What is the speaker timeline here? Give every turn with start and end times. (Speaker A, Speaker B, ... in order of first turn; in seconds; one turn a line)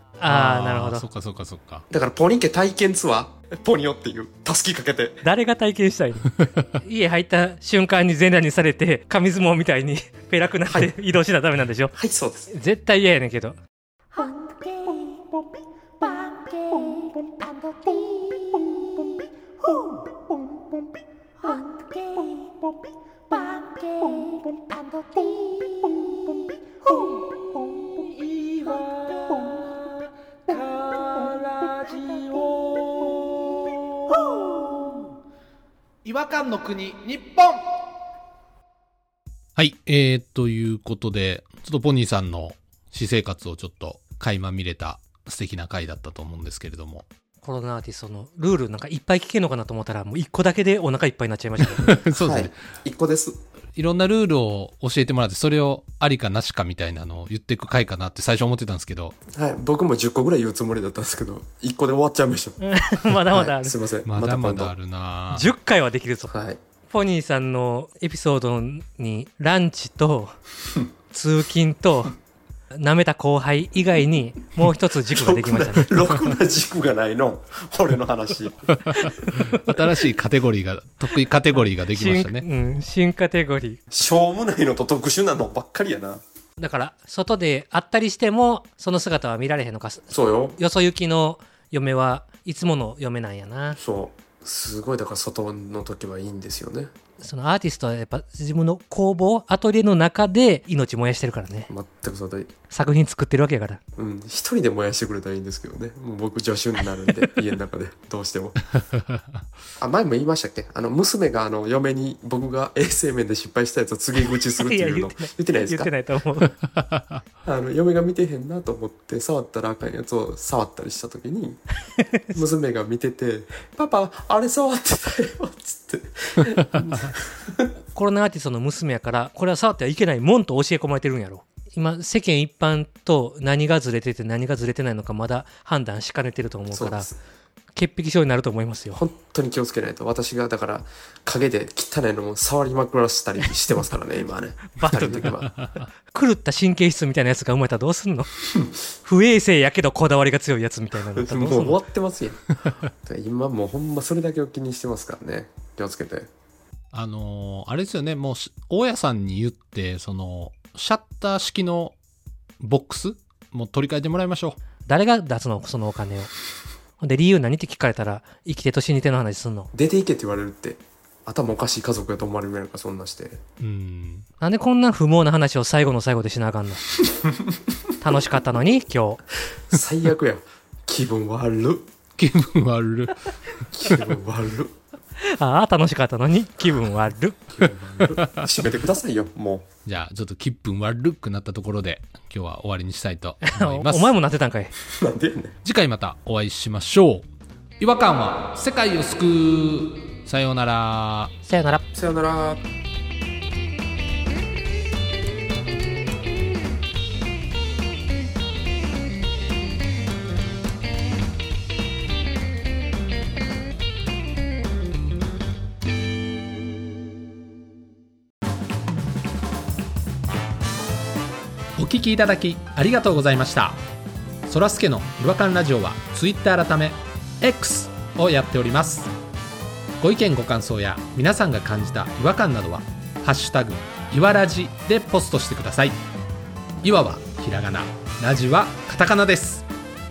Speaker A: 0.2-1.0
Speaker B: 0.2-1.9
Speaker C: 1.9-5.2
Speaker A: 5.2-6.3
Speaker B: 6.4-6.6
Speaker A: 6.8-11.9
Speaker C: 11.9-12.5
Speaker A: 12.5-13.6
Speaker D: 14.1-15.2
Speaker D: 16.0-17.2
Speaker D: 17.9-18.4
Speaker D: 21.4-22.6
Speaker D: 23.3-34.9
Speaker D: 36.0-37.6
Speaker B: 39.5-47.0
Speaker A: 47.4-52.0
Speaker B: 51.6-52.5
Speaker C: 52.1-53.4
Speaker B: 53.8-59.2
Speaker C: 59.3-62.6
Speaker A: 62.6-63.8
Speaker C: 63.3-64.7
Speaker B: 64.0-65.5
Speaker A: 65.3-66.3
Speaker C: 66.3-66.6
Speaker A: 66.9-70.3
Speaker A: 71.1-72.1
Speaker A: 72.7-76.0
Speaker C: 75.1-78.8
Speaker B: 78.8-82.4
Speaker A: 81.9-83.8
Speaker C: 83.9-86.2
Speaker A: 86.6-93.8
Speaker C: 90.1-90.6
Speaker C: 93.8-96.9
Speaker A: 97.2-101.7
Speaker C: 101.7-102.5
Speaker A: 102.7-103.8
Speaker C: 104.0-108.6
Speaker C: 109.8-115.9
Speaker A: 114.6-116.5
Speaker B: 116.7-117.2
Speaker C: 117.4-121.6
Speaker A: 122.0-122.2
Speaker C: 122.3-127.7
Speaker A: 127.9-137.1
Speaker C: 136.7-137.2
Speaker A: 137.8-139.0
Speaker C: 138.9-145.5
Speaker A: 144.8-145.4
Speaker A: 146.1-148.3
Speaker A: 149.0-151.8
Speaker C: 151.1-156.3
Speaker B: 156.9-161.9
Speaker B: 162.6-164.6
Speaker A: 164.8-166.3
Speaker A: 167.0-169.7
Speaker C: 169.7-173.4
Speaker B: 173.6-174.2
Speaker A: 174.4-176.8
Speaker A: 178.0-179.2
Speaker C: 179.6-181.9
Speaker B: 182.2-183.4
Speaker C: 183.7-184.7
Speaker A: 185.2-187.4
Speaker C: 187.5-189.7
Speaker B: 188.0-188.5
Speaker B: 189.8-194.1
Speaker A: 193.4-194.7
Speaker C: 194.8-195.5
Speaker B: 195.6-197.2
Speaker B: 197.8-201.3
Speaker A: 201.4-201.8
Speaker C: 201.9-202.6
Speaker B: 221.8-223.8
Speaker B: 224.5-229.1
Speaker B: 230.0-236.0
Speaker B: 236.8-239.7